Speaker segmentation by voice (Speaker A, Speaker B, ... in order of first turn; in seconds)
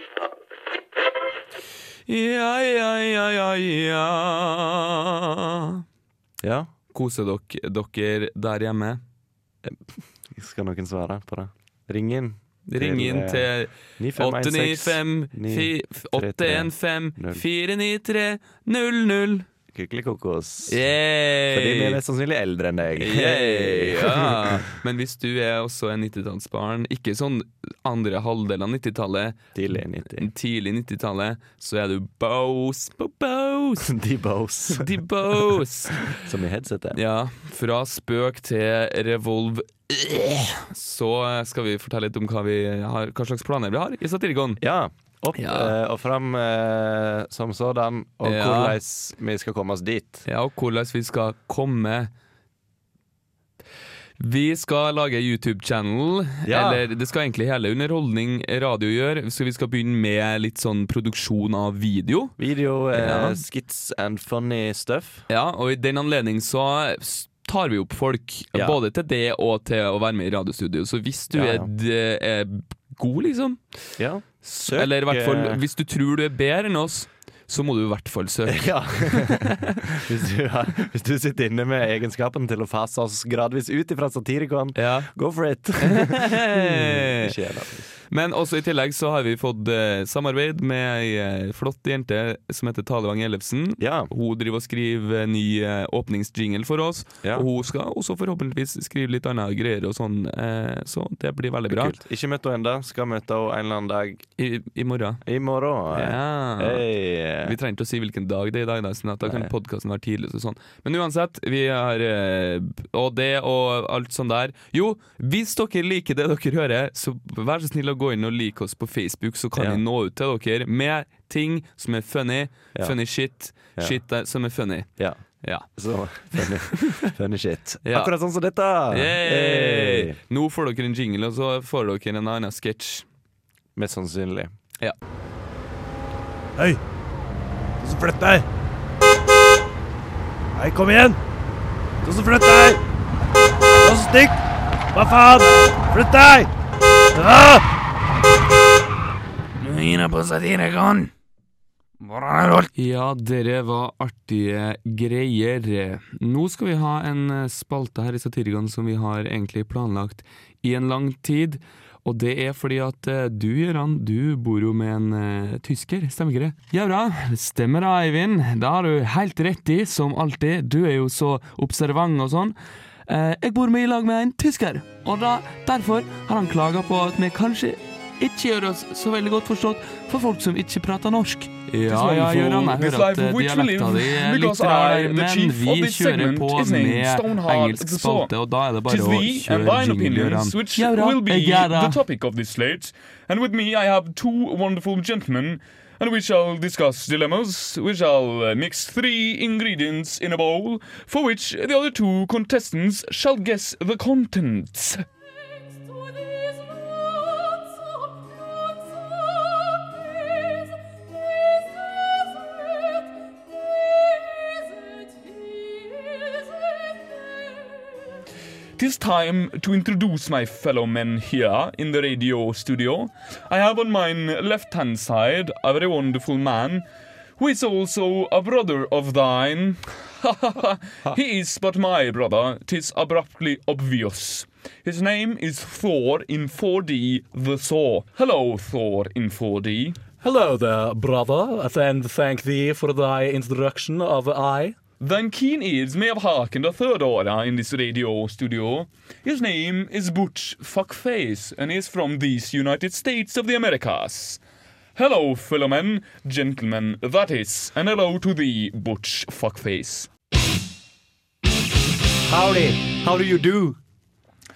Speaker A: 2.1-5.8, 6.9-9.0, 12.7-19.5, 20.7-22.0, 23.0-29.4, 30.2-33.9, 34.7-36.2, 37.0-44.6, 45.4-45.7, 48.2-48.8, 50.3-52.1, 54.2-62.4, 62.9-63.4, 65.3-79.5, 84.8-85.1, 85.8-87.3, 88.1-102.0, 104.4-105.2, 105.9-106.9, 107.4-125.7, 126.3-127.0, 127.8-128.1, 128.9-133.1, 152.7-192.0
Speaker B: 6.4-6.7, 9.6-17.4, 19.7-20.9, 21.5-24.6, 29.6-30.3, 33.8-34.9, 36.1-37.0, 44.6-50.3, 56.4-56.8, 62.4-65.2, 71.3-71.7, 74.0-75.6, 78.5-87.9, 93.8-94.1, 101.7-104.2, 105.2-107.6, 109.2-109.5, 119.6-119.8, 125.0-130.2, 133.8-134.5, 262.3-263.8
Speaker C: 137.8-138.4, 140.6-141.2, 142.0-142.8, 143.8-144.4, 144.9-146.5, 147.2-147.6
Speaker D: 152.2-152.6, 181.9-188.3, 188.9-205.1, 218.8-226.8, 227.4-240.0, 245.0-254.4, 255.0-260.1
Speaker E: 240.2-244.8